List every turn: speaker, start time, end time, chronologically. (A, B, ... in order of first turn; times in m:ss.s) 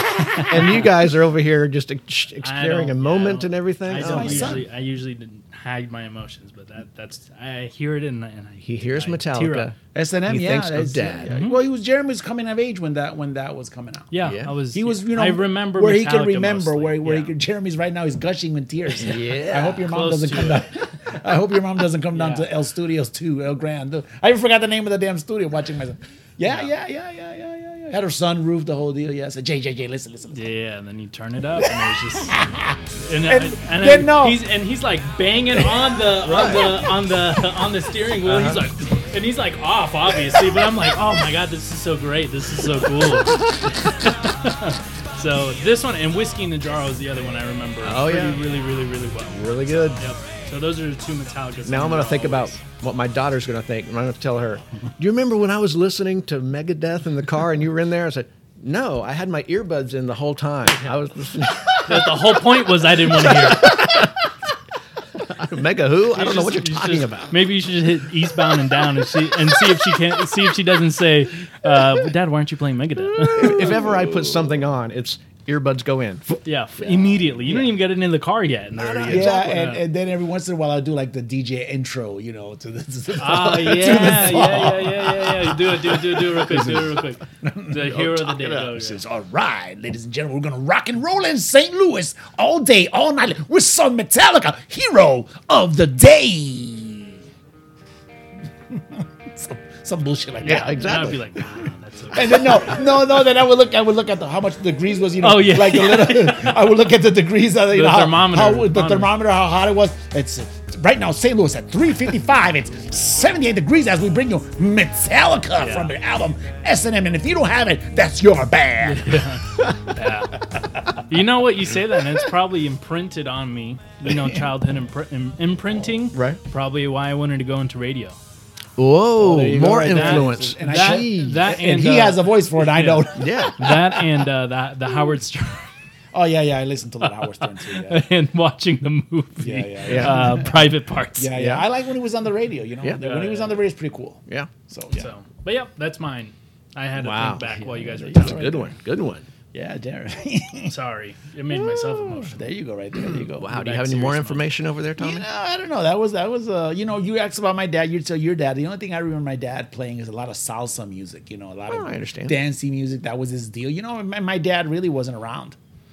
0:00.2-0:00.5 A
0:00.4-0:04.6 B
0:02.4-0:09.7 C
0:04.0-0:04.6 A
0:08.6-0:09.8 B
0:09.9-0:14.1 A
0:10.3-0:11.4 B
0:11.3-0:11.6 C
0:14.1-0:17.3 C
0:14.2-0:14.6 B
0:14.7-0:30.5 A
0:18.9-0:19.9 B
0:19.9-0:20.7 C
0:22.1-0:22.5 C
0:26.5-0:26.7 C
0:30.3-0:32.4 C
0:31.6-0:34.4 A
0:33.0-0:52.6 C
0:36.2-0:36.8 B
0:38.2-0:38.6 B
0:43.3-0:43.7 B
0:47.8-0:48.4 B
0:49.2-0:50.1 B
0:51.6-1:04.3 B
1:01.8-1:04.0 C
1:05.2-1:07.4 B
1:06.1-1:13.8 C
1:13.3-1:14.4 A
1:13.3-1:17.1 B
1:16.4-1:19.8 C
1:18.8-1:19.8 B
1:19.0-1:37.2 A
1:23.2-1:29.0 C
1:23.5-1:24.5 B
1:28.1-1:28.8 B
1:38.7-1:40.9 A
1:40.4-1:41.3 B
1:40.4-1:43.2 C
1:42.1-1:59.7 A
1:45.2-1:46.7 C
1:47.7-1:49.2 C
1:55.6-1:55.9 C
1:58.8-2:00.4 C
2:01.1-2:08.2 C
2:06.1-2:06.4 B
2:08.8-2:11.2 B
2:09.2-2:14.0 A
2:09.5-2:15.7 C
2:13.2-2:13.7 B
2:16.1-2:18.0 A
2:17.3-2:21.4 C
2:19.4-2:20.5 A
2:19.8-2:20.3 B
2:21.2-2:25.1 A
2:21.3-2:21.7 B
2:23.0-2:23.6 C
2:24.3-2:24.5 B
2:24.9-2:28.6 C
2:27.0-2:29.3 B
2:27.7-2:28.7 A
2:29.5-2:30.7 A
2:30.7-2:32.4 C
2:31.5-2:33.5 A
2:33.0-2:35.3 B
2:33.4-2:34.4 C
2:35.0-2:45.6 A
2:41.7-2:42.4 B